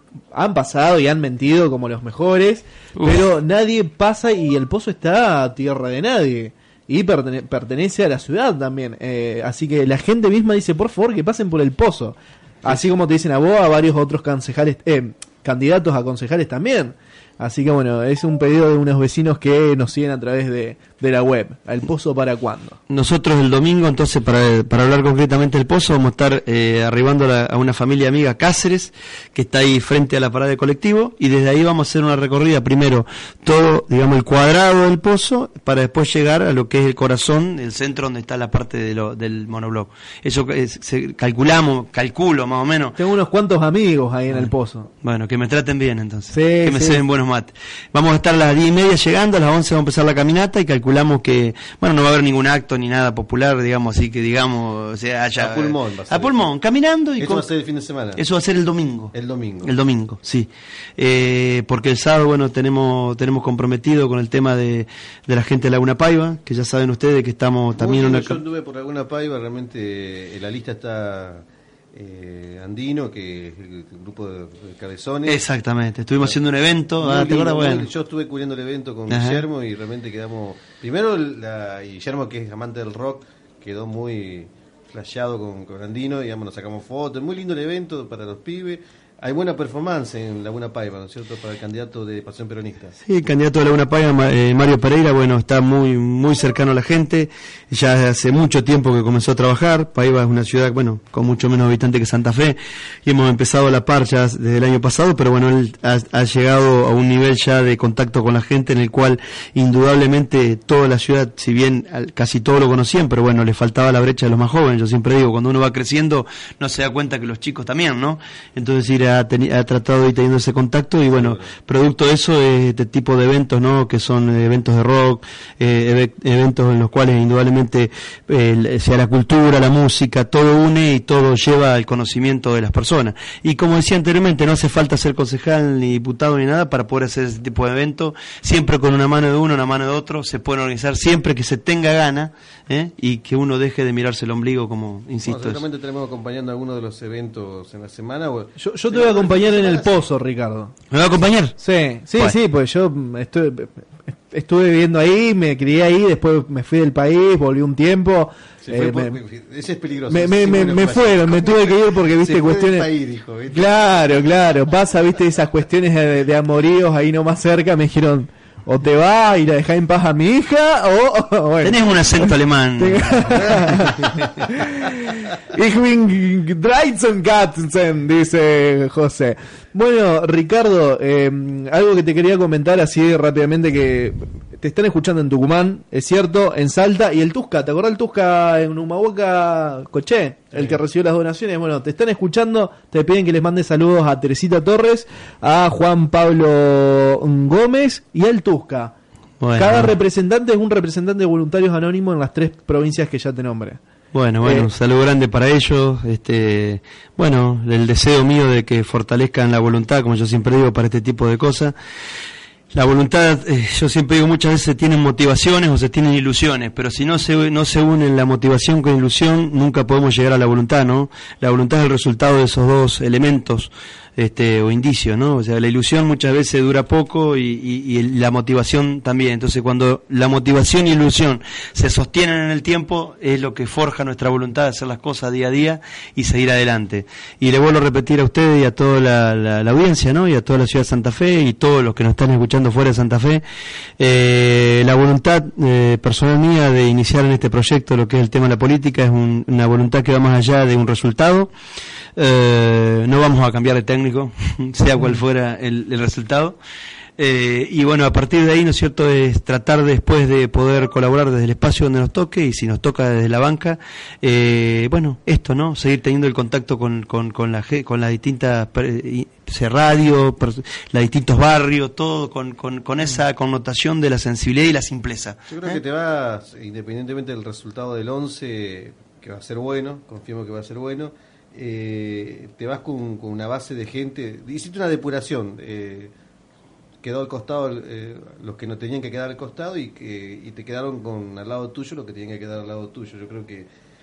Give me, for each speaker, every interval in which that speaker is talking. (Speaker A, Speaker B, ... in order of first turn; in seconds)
Speaker A: 0.3-22.8, 43.0-44.9, 46.3-47.0, 148.6-150.7, 151.6-159.2, 160.1-162.9, 163.5-198.9, 199.6-203.8, 204.4-204.7
Speaker B: 22.9-43.0, 45.0-57.5, 58.1-68.4, 75.2-77.9, 79.1-79.4, 93.1-145.6, 150.9-151.6, 171.6-174.1, 199.4-199.9, 204.1-211.7, 212.7-243.4, 244.0-251.5, 252.2-256.6, 257.2-275.8
Speaker C: 55.4-56.5, 57.2-58.2, 59.1-59.7, 67.8-75.4, 77.0-93.0, 121.1-121.5, 145.2-150.1, 158.6-164.2, 275.5-286.1, 287.0-293.7